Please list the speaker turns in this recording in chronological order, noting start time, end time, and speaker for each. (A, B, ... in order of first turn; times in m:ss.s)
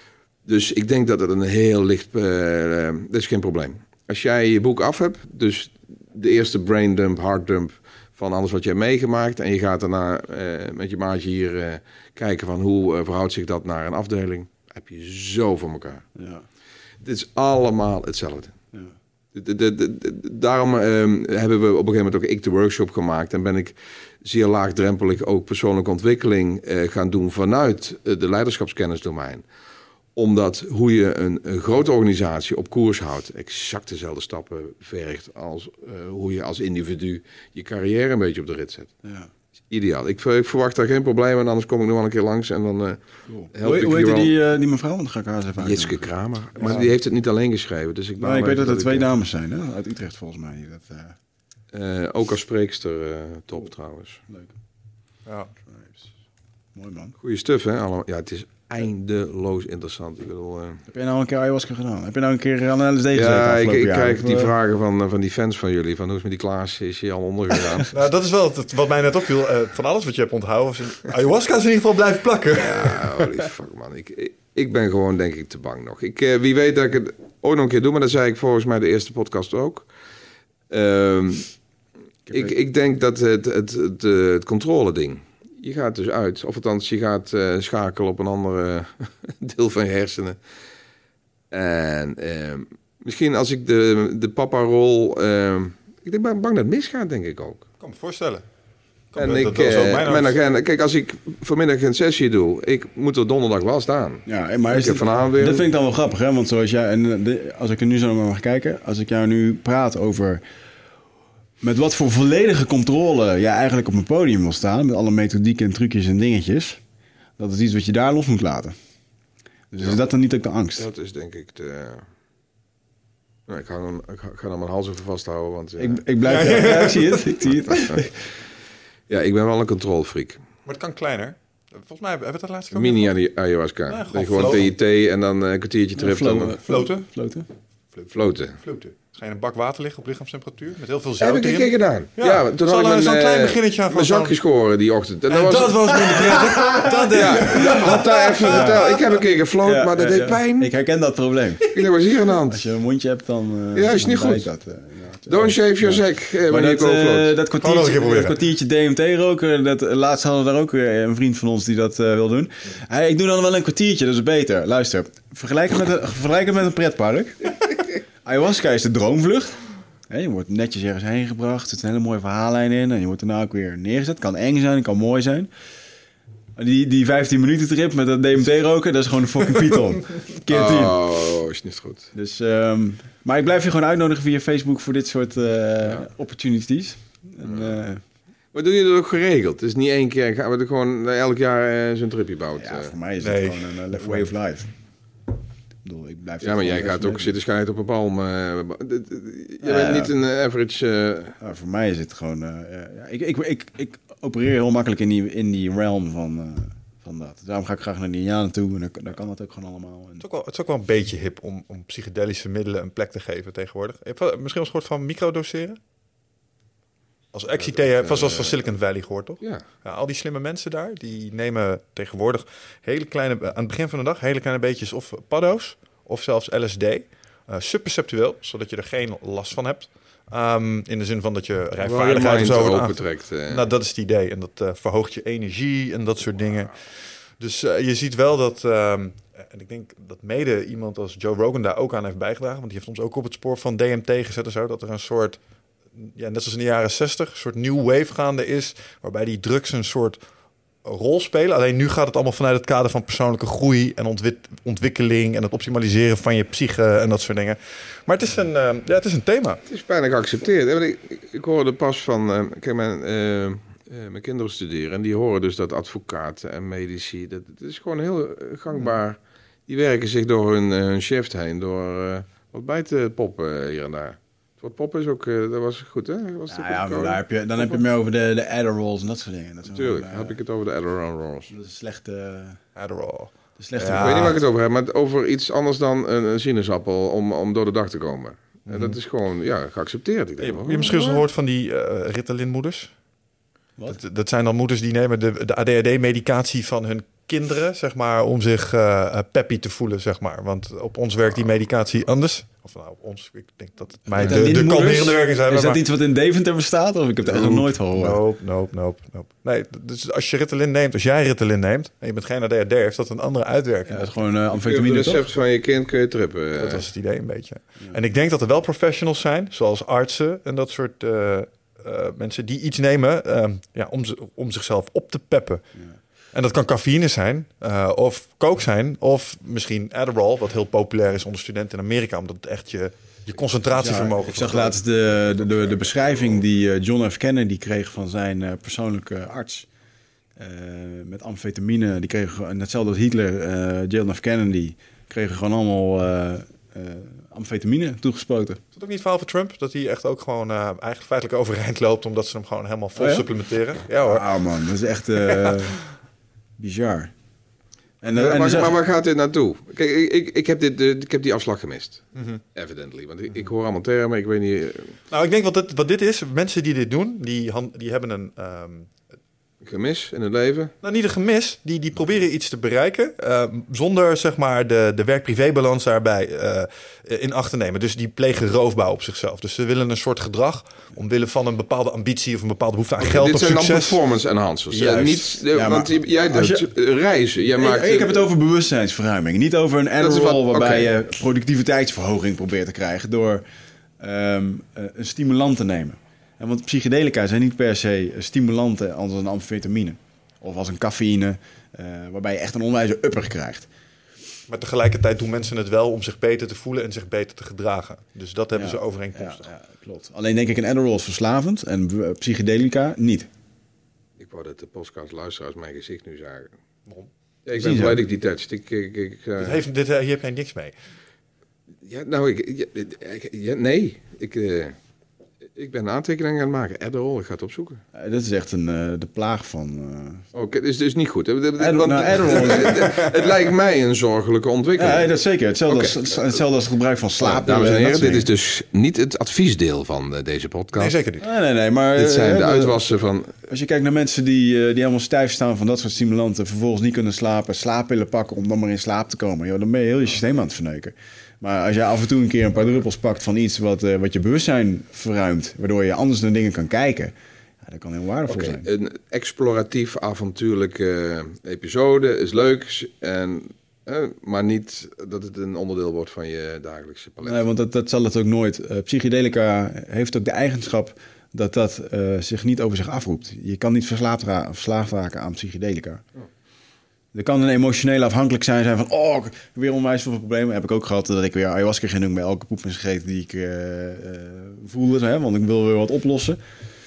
0:00.4-0:16.0 A
0:16.2-0:16.4 B
0:17.0-0:18.6 A
0:19.3-0:29.4 A
0:30.2-0:38.9 A
0:39.0-0:39.3 B
0:39.7-0:43.0 A
0:43.3-0:46.0 B
0:43.5-0:44.3 A
0:45.6-0:49.1 A
0:46.6-0:46.9 C
0:48.2-0:51.2 B
0:51.7-0:54.2 A
0:55.2-0:55.5 C
0:55.7-0:56.0 B
0:56.7-0:57.1 B
0:57.2-1:00.8 A
1:00.9-1:04.5 B
1:03.1-1:07.9 A
1:07.9-1:13.3 C
1:12.6-1:19.9 A
1:20.7-1:21.5 A
1:22.3-1:22.5 B
1:22.3-1:30.4 A
1:31.5-1:37.6 A
1:37.8-1:38.4 C
1:39.1-1:40.3 C
1:39.2-1:45.6 A
1:44.3-1:50.4 B
1:51.6-1:56.8 B
1:57.4-1:58.7 B
1:59.7-2:00.8 B
2:00.8-2:02.0 A
2:03.5-2:06.0 A
2:05.8-2:08.3 B
2:06.3-2:07.2 C
2:07.5-2:08.0 A
2:09.1-2:10.4 A
2:10.6-2:13.1 C
2:12.7-2:16.6 A
2:13.9-2:14.7 C
2:16.0-2:17.5 B
2:16.6-2:17.0 C
2:17.9-2:18.6 A
2:18.6-2:24.4 C
2:21.2-2:26.6 A
2:25.3-2:28.8 C
2:26.5-2:26.9 B
2:27.1-2:30.7 A
2:28.4-2:28.8 B
2:29.6-2:31.7 B
2:31.7-2:32.6 A
2:32.5-2:47.6 B
2:33.7-2:34.5 A
2:35.3-2:37.3 A
2:37.6-2:38.4 C
2:48.2-2:49.6 B
2:50.1-2:55.5 B
2:56.6-3:01.0 B
3:00.5-3:02.1 A
3:02.1-3:08.0 B
3:07.4-3:07.8 A
3:08.5-3:12.9 A
3:12.6-3:14.7 B
3:13.2-3:14.3 C
3:15.8-3:17.4 B
3:16.4-3:21.4 A
3:19.6-3:20.1 B
3:21.4-3:30.2 B
3:30.2-3:35.8 C
3:37.3-4:05.4 C
3:37.6-3:38.6 A
3:51.8-3:53.6 A
4:05.9-4:10.2 C
4:10.8-4:19.6 C
4:19.7-4:37.8 A
4:36.5-4:40.4 B
4:39.7-4:41.5 A
4:41.5-4:42.6 B
4:42.8-4:44.4 C
4:43.6-4:44.4 B
4:43.9-4:51.2 A
4:48.7-4:48.9 C
4:50.4-4:52.9 C
4:53.9-5:05.8 C
5:04.0-5:08.2 B
5:07.2-5:14.1 C
5:13.9-5:15.2 B
5:14.5-5:16.8 A
5:16.6-5:25.6 C
5:26.3-5:34.8 C
5:33.7-5:39.7 B
5:40.4-5:48.6 B
5:48.7-5:54.4 C
5:52.9-5:53.3 B
5:54.0-5:55.8 B
5:55.2-5:55.7 C
5:56.6-5:57.1 B
5:58.0-5:58.7 B
5:58.1-6:05.0 A
6:02.2-6:02.4 C
6:05.1-6:08.9 C
6:09.6-6:10.7 A
6:10.8-6:24.0 C
6:23.0-6:28.2 A
6:24.7-6:25.4 C
6:25.5-6:26.6 B
6:27.6-6:33.4 B
6:30.0-6:30.9 A
6:34.0-6:43.7 B
6:44.5-6:49.5 C
6:48.5-6:53.3 B
6:54.2-6:56.5 A
6:57.4-6:59.6 A
6:57.6-6:58.0 B
6:59.4-7:00.7 C
7:01.8-7:04.7 A
7:05.5-7:07.8 A
7:07.9-7:10.2 B
7:10.3-7:15.1 A
7:11.6-7:13.0 B
7:14.8-7:18.3 B
7:15.7-7:16.1 A
7:17.2-7:20.9 A
7:20.7-7:21.2 C
7:21.2-7:22.8 B
7:21.9-7:23.4 A
7:23.4-7:38.6 B
7:38.3-7:47.5 A
7:47.2-7:56.0 B
7:57.1-8:06.4 B